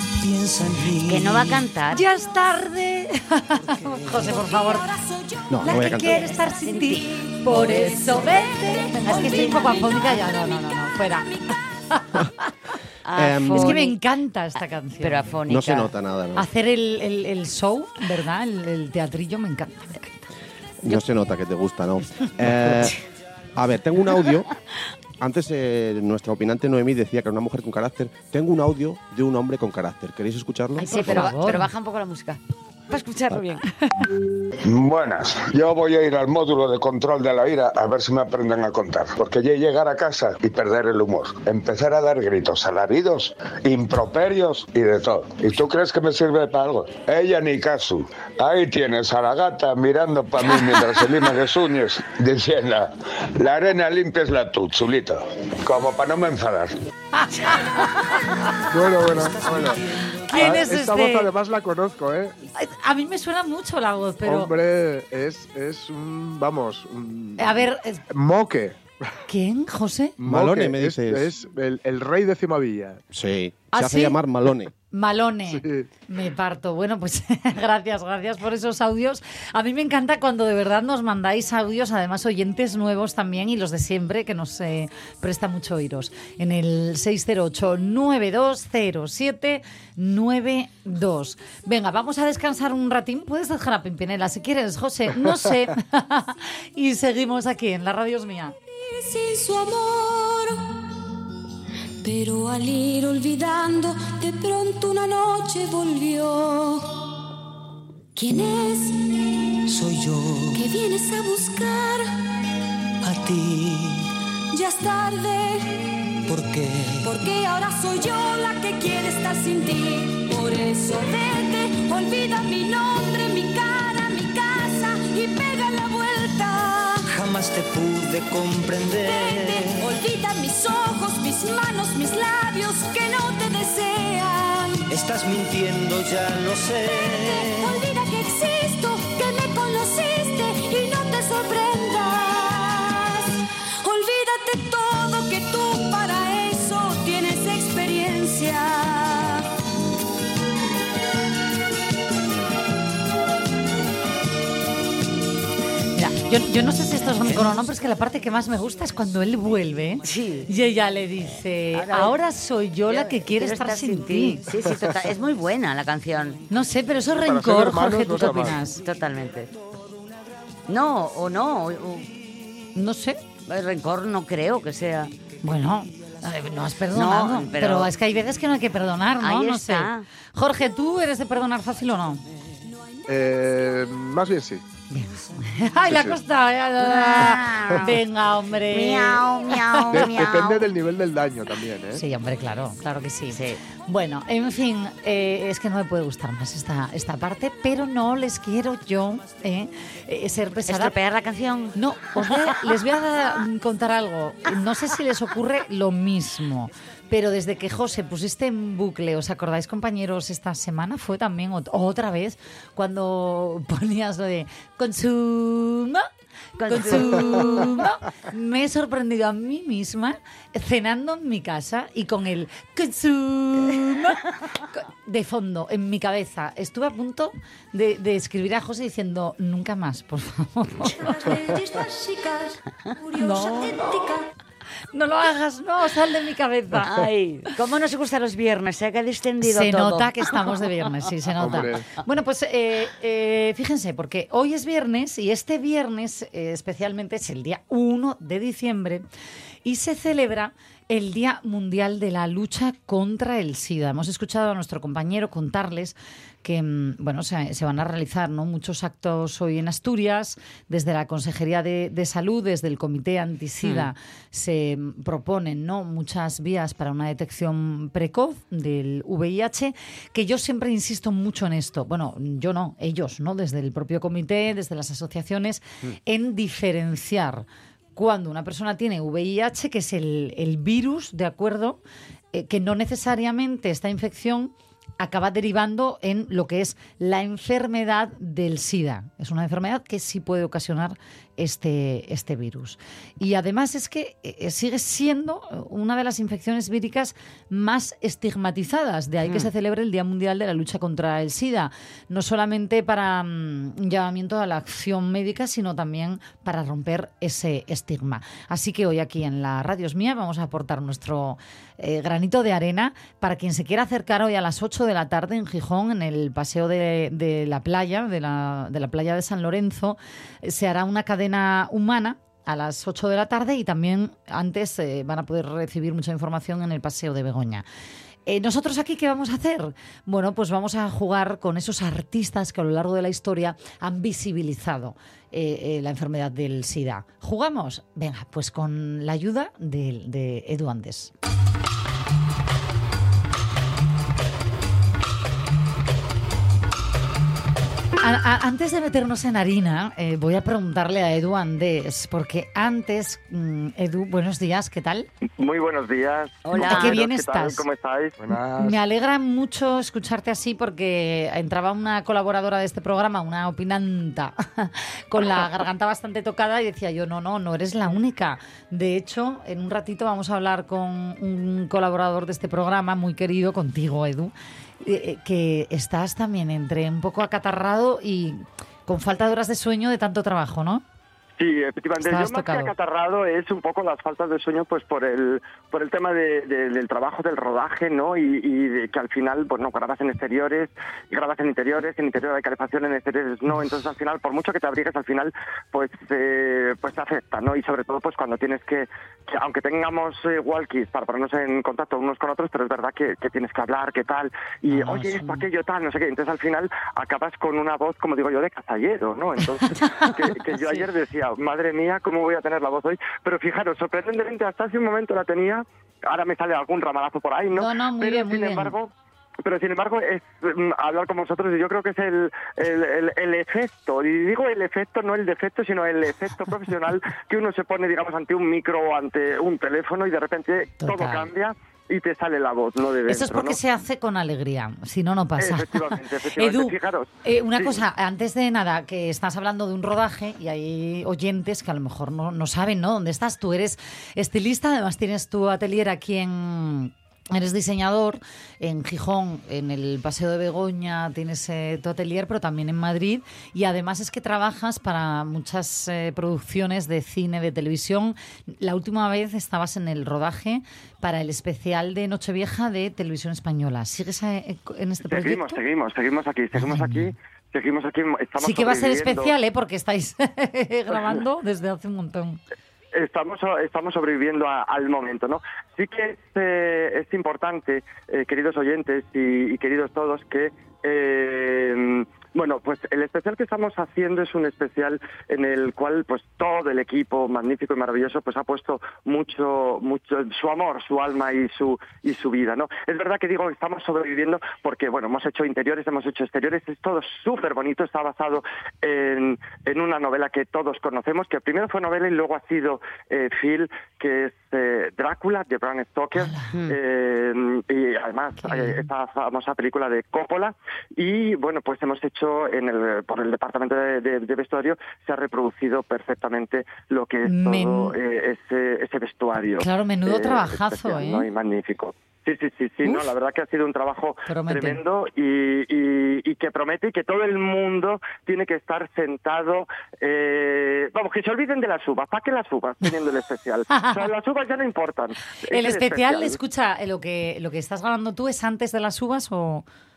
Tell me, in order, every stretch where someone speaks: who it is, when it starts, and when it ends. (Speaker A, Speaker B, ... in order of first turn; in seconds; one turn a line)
Speaker A: 0.2-1.6
Speaker B: 1.0-2.0
Speaker C: 1.9-4.8
Speaker D: 4.1-12.2
Speaker E: 5.5-6.2
Speaker C: 5.6-11.3
Speaker B: 6.7-7.0
Speaker C: 11.9-12.5
Speaker B: 13.0-14.0
Speaker E: 13.1-13.8
Speaker C: 13.5-15.4
Speaker B: 15.0-15.9
Speaker E: 15.4-16.5
Speaker C: 16.4-20.3
Speaker E: 20.8-23.0
Speaker C: 22.5-22.9
Speaker E: 23.5-24.5
Speaker E: 25.2-31.4
Speaker C: 30.8-31.7
Speaker B: 30.8-32.4
Speaker B: 32.9-33.6
Speaker F: 34.6-56.7
Speaker C: 57.1-58.6
Speaker G: 58.7-62.4
Speaker A: 58.8-60.7
Speaker C: 60.3-61.3
Speaker C: 62.5-64.5
Speaker G: 64.2-68.8
Speaker C: 67.4-68.0
Speaker C: 69.3-70.2
Speaker G: 70.2-73.0
Speaker E: 70.2-71.3
Speaker E: 73.1-74.7
Speaker C: 73.7-74.2
Speaker C: 74.9-98.5
Speaker G: 75.5-75.9
Speaker D: 98.7-100.8
Speaker D: 102.0-106.9
Speaker D: 108.1-109.0
Speaker A: 109.7-110.7
Speaker D: 110.5-112.1
Speaker A: 113.0-114.1
Speaker D: 114.5-115.8
Speaker A: 116.2-117.1
Speaker D: 117.0-127.0
Speaker A: 127.1-129.9
Speaker D: 129.3-134.8
Speaker A: 134.9-137.8
Speaker D: 137.4-143.3
Speaker D: 143.8-149.5
Speaker C: 155.9-164.4
Speaker B: 160.0-160.5
Speaker B: 161.7-162.1
Speaker B: 162.9-166.4
Speaker C: 166.5-168.8
Speaker G: 167.2-168.6
Speaker B: 168.7-169.5
Speaker B: 170.7-172.1
Speaker C: 172.7-173.2
Speaker B: 173.5-175.1
Speaker C: 175.4-182.2
Speaker B: 176.9-177.9
Speaker B: 179.2-180.1
Speaker G: 183.1-184.6
Speaker C: 184.9-190.3
Speaker G: 185.9-186.2
Speaker B: 186.8-187.9
Speaker B: 188.7-190.7
Speaker G: 189.9-192.0
Speaker C: 191.9-200.9
Speaker B: 193.3-193.6
Speaker B: 200.7-202.5
Speaker C: 201.7-216.1
Speaker B: 216.6-217.8
Speaker C: 216.6-231.1
Speaker D: 230.8-234.3
Speaker C: 233.2-233.9
Speaker C: 234.9-237.1
Speaker B: 236.8-240.6
Speaker C: 239.4-249.0
Speaker G: 241.4-241.9
Speaker C: 249.6-281.8
Speaker B: 263.6-263.9
Speaker C: 282.3-327.6
Speaker C: 328.3-341.1
Speaker C: 348.0-355.1
Speaker H: 355.4-358.1
Speaker B: 356.4-357.0
Speaker C: 356.5-357.6
Speaker G: 358.2-358.8
Speaker C: 358.6-380.8
Speaker H: 381.4-418.9
Speaker C: 382.0-382.7
Speaker C: 404.7-405.4
Speaker C: 409.7-410.8
Speaker C: 417.5-418.7
Speaker H: 419.4-433.6
Speaker C: 430.8-431.3
Speaker C: 433.1-465.6
Speaker H: 435.4-437.8
Speaker H: 465.1-469.3
Speaker C: 466.6-467.1
Speaker C: 468.4-472.4
Speaker H: 472.9-536.4
Speaker C: 506.1-506.5
Speaker B: 506.5-506.8
Speaker C: 508.4-508.9
Speaker C: 517.2-518.0
Speaker C: 519.6-521.3
Speaker C: 522.8-523.1
Speaker C: 524.3-524.8
Speaker C: 533.7-534.1
Speaker C: 535.5-539.6